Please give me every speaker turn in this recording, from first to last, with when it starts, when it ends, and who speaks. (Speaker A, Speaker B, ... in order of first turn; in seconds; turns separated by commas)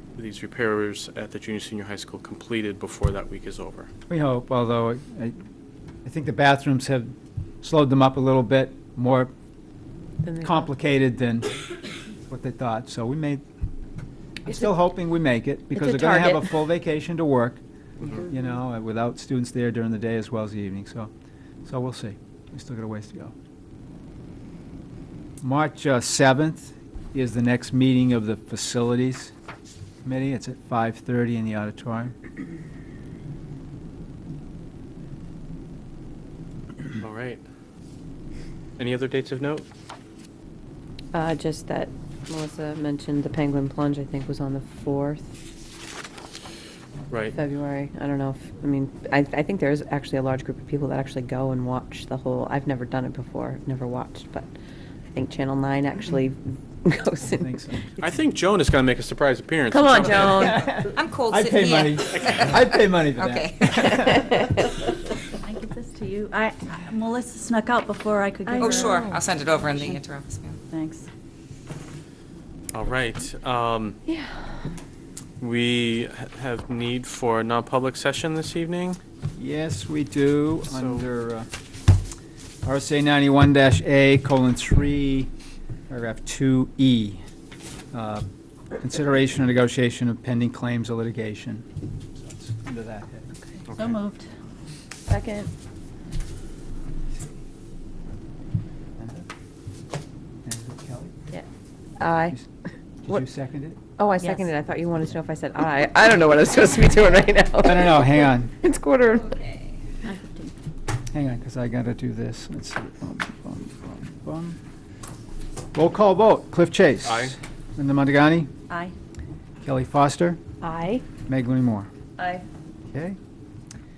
Speaker A: 0.2-3.9, Speaker B: 4.1-5.4, Speaker B: 6.0-9.3, Speaker C: 10.2-10.6, Speaker B: 10.4-11.6, Speaker B: 12.3-13.4, Speaker B: 14.4-21.1, Speaker C: 15.7-16.6, Speaker B: 21.7-23.4, Speaker B: 25.4-29.3, Speaker B: 30.1-32.1, Speaker A: 37.0-37.4, Speaker A: 38.8-39.7, Speaker C: 41.1-45.3, Speaker A: 47.1-47.4, Speaker C: 47.3-54.5, Speaker C: 55.1-57.5, Speaker B: 57.2-58.1, Speaker A: 58.0-60.6, Speaker C: 59.7-60.9, Speaker B: 60.4-64.3, Speaker D: 60.4-64.4, Speaker E: 65.4-69.1, Speaker C: 68.5-69.2, Speaker D: 68.6-70.6, Speaker E: 70.7-71.1, Speaker A: 72.7-74.0, Speaker C: 74.1-74.5, Speaker A: 75.4-79.0, Speaker B: 79.4-81.5, Speaker A: 80.7-81.1, Speaker B: 82.6-85.3, Speaker B: 85.9-87.2, Speaker B: 87.9-88.2, Speaker B: 88.8-91.7, Speaker B: 92.2-93.3, Speaker A: 93.7-94.0, Speaker E: 93.7-94.3, Speaker C: 95.1-95.5, Speaker B: 99.0-99.3, Speaker B: 100.5-101.2, Speaker C: 102.0-102.4, Speaker B: 103.0-103.8, Speaker C: 104.0-109.4, Speaker E: 104.2-104.5, Speaker B: 107.6-108.5, Speaker D: 109.2-109.7, Speaker E: 110.0-110.5, Speaker B: 111.1-114.6, Speaker B: 115.7-118.5, Speaker A: 117.0-117.4, Speaker E: 118.7-119.0, Speaker B: 119.6-120.4, Speaker E: 120.7-121.0, Speaker B: 121.3-121.9, Speaker C: 122.2-122.4, Speaker B: 122.9-123.2